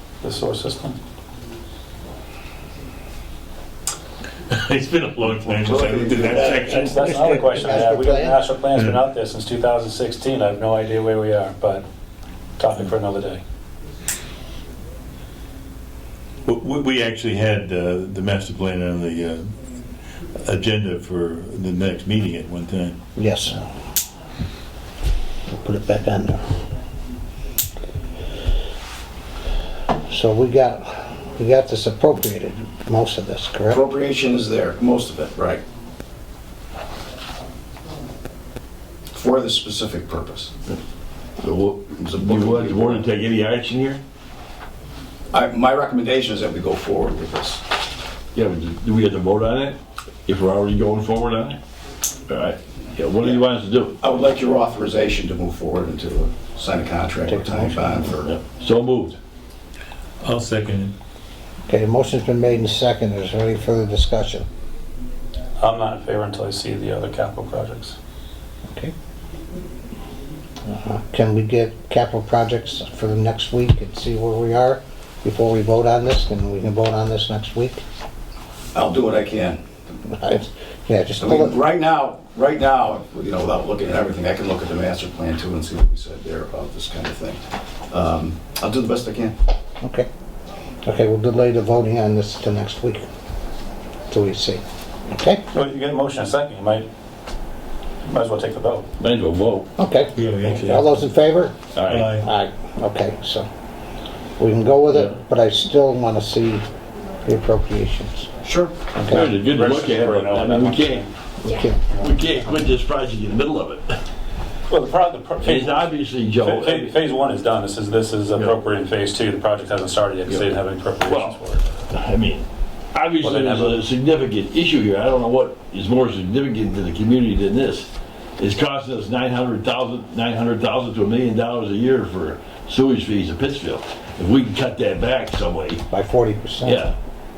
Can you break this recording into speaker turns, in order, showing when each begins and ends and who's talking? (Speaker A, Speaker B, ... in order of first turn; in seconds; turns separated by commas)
Speaker A: 0.2-1.0, Speaker B: 4.5-7.0, Speaker C: 5.5-6.6, Speaker D: 6.7-8.4, Speaker A: 6.7-11.8, Speaker A: 12.6-13.4, Speaker B: 16.4-19.5, Speaker B: 20.4-23.0, Speaker D: 23.2-23.7, Speaker D: 25.5-26.4, Speaker D: 30.1-33.8, Speaker C: 33.7-35.6, Speaker C: 39.1-40.5, Speaker E: 41.4-44.0, Speaker C: 41.9-43.1, Speaker C: 45.3-47.6, Speaker E: 48.4-51.6, Speaker E: 52.3-54.0, Speaker C: 53.2-53.4, Speaker C: 54.0-58.4, Speaker D: 57.3-57.9, Speaker E: 58.2-59.2, Speaker B: 60.2-61.0, Speaker D: 61.7-64.5, Speaker A: 65.6-68.0, Speaker D: 70.7-77.8, Speaker C: 78.7-79.6, Speaker D: 80.0-81.6, Speaker C: 81.2-89.4, Speaker D: 89.8-90.1, Speaker D: 90.8-93.0, Speaker D: 94.1-95.4, Speaker A: 95.5-96.9, Speaker A: 98.0-98.9, Speaker E: 99.0-99.7, Speaker D: 99.8-101.6, Speaker B: 100.2-101.0, Speaker E: 101.7-102.1, Speaker B: 101.9-102.3, Speaker D: 102.2-103.5, Speaker D: 104.4-106.6, Speaker D: 107.2-108.3, Speaker C: 108.4-108.8, Speaker D: 109.0-109.3, Speaker A: 109.1-111.1, Speaker E: 109.1-111.1, Speaker D: 111.4-111.8, Speaker E: 111.9-113.9, Speaker A: 114.7-121.6, Speaker E: 115.4-116.9, Speaker E: 121.0-121.4, Speaker E: 121.9-135.8, Speaker A: 123.2-123.8, Speaker D: 135.9-136.8, Speaker E: 136.6-136.9